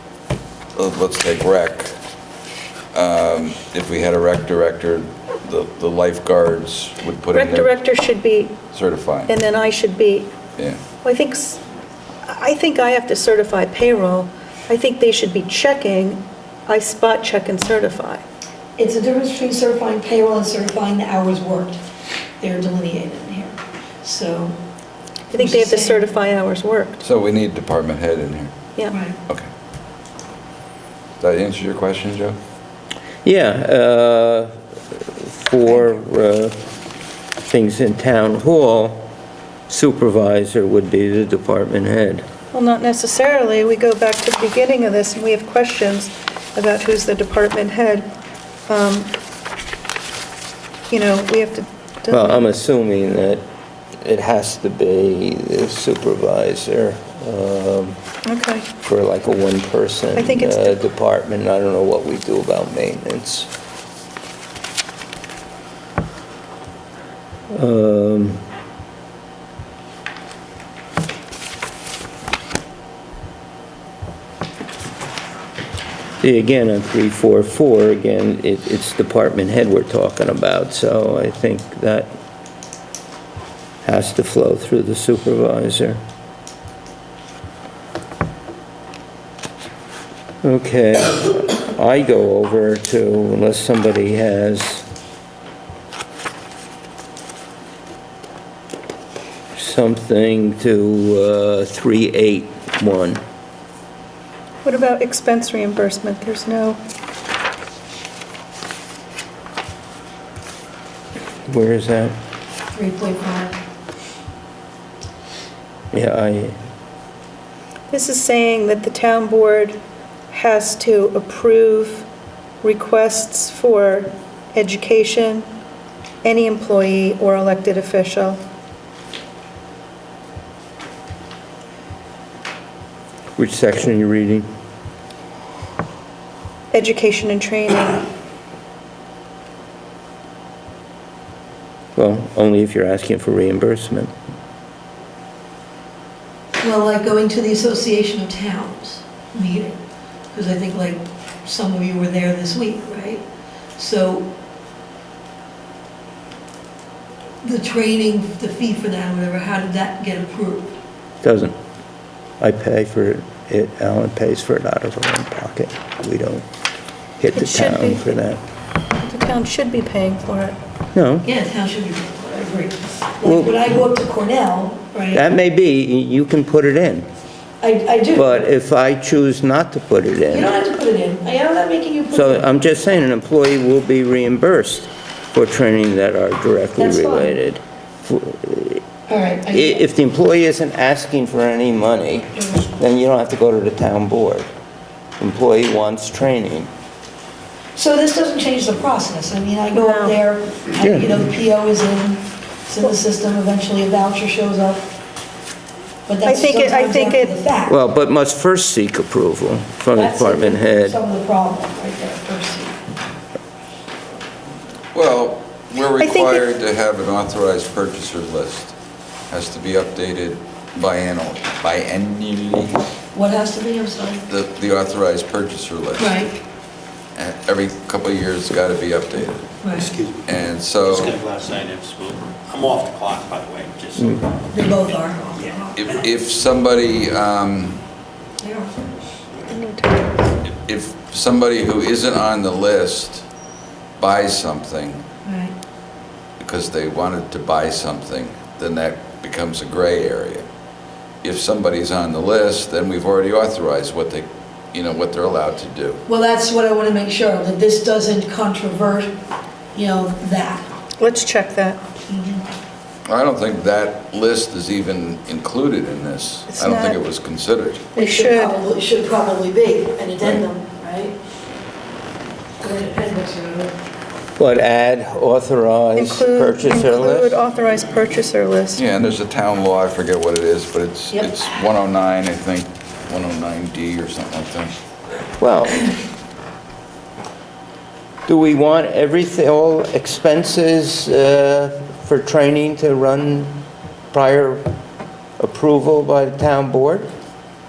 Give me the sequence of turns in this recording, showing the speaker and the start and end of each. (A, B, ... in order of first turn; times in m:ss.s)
0:00.8-0:01.9 A
0:02.9-0:07.7 A
0:07.3-0:08.6 B
0:08.7-0:09.3 A
0:09.3-0:10.3 B
0:11.0-0:11.6 B
0:12.2-0:18.2 B
0:18.8-0:21.8 C
0:22.4-0:24.6 C
0:25.3-0:27.0 B
0:25.3-0:26.0 C
0:27.0-0:28.5 A
0:28.9-0:29.2 C
0:31.2-0:32.4 A
0:33.2-0:36.6 D
0:37.4-0:39.1 D
0:39.7-0:42.2 D
0:42.5-0:48.1 B
0:48.7-0:49.1 B
0:50.9-0:52.5 B
0:52.1-0:53.4 D
0:54.0-0:58.0 D
0:58.3-0:58.6 B
0:58.8-1:03.5 D
1:00.1-1:00.8 B
1:07.5-1:08.4 D
1:16.2-1:22.1 D
1:23.8-1:26.0 D
1:30.4-1:34.8 D
1:39.5-1:43.2 D
1:44.6-1:46.8 B
1:51.4-1:52.2 D
1:52.7-1:53.5 C
1:55.9-1:56.6 D
1:57.9-1:59.8 B
2:00.3-2:02.1 B
2:02.6-2:05.5 B
2:06.2-2:08.4 B
2:13.4-2:14.5 D
2:16.7-2:18.0 B
2:22.0-2:24.1 D
2:26.6-2:29.8 C
2:30.3-2:33.2 C
2:33.8-2:34.3 C
2:37.4-2:40.8 C
2:41.2-2:41.6 D
2:42.4-2:46.4 D
2:47.2-2:48.4 D
2:47.3-2:48.1 B
2:49.0-2:50.6 B
2:50.9-2:51.2 D
2:51.2-2:55.2 C
2:53.2-2:53.6 D
2:55.1-2:57.1 D
2:57.6-2:58.4 C
2:58.1-3:00.5 D
3:00.3-3:02.4 C
3:02.1-3:08.8 D
3:06.8-3:07.4 C
3:09.1-3:09.8 C
3:09.5-3:14.5 D
3:12.4-3:12.7 C
3:15.2-3:16.7 D
3:17.7-3:24.9 C
3:19.7-3:20.2 B
3:20.8-3:21.1 D
3:26.1-3:27.8 C
3:26.2-3:27.4 B
3:27.6-3:31.0 D
3:29.9-3:32.8 C
3:34.9-3:38.8 A
3:36.0-3:36.4 B
3:39.3-3:42.8 A
3:43.1-3:44.2 C
3:44.3-3:46.1 A
3:46.0-3:46.3 C
3:47.2-3:49.4 A
3:49.6-3:49.9 C
3:49.7-3:54.3 E
3:50.2-3:51.2 A
3:54.0-3:54.2 D
3:54.5-3:55.9 C
3:55.4-3:56.0 E
3:55.7-3:57.8 A
3:58.4-3:58.8 C
3:59.5-4:00.4 B
4:00.4-4:03.2 A
4:04.0-4:05.0 A
4:05.2-4:05.5 C
4:06.4-4:10.4 A
4:11.2-4:16.0 A
4:16.0-4:19.1 C
4:19.7-4:20.7 C
4:21.0-4:21.8 B
4:22.1-4:22.4 C
4:23.0-4:27.8 A
4:26.5-4:27.0 B
4:27.9-4:31.2 C
4:28.0-4:28.6 B
4:32.6-4:33.7 C
4:34.4-4:37.4 D
4:36.0-4:38.8 B
4:38.7-4:44.7 A
4:41.1-4:41.5 C
4:45.4-4:45.8 D
4:48.3-4:54.7 D
4:55.4-4:57.1 D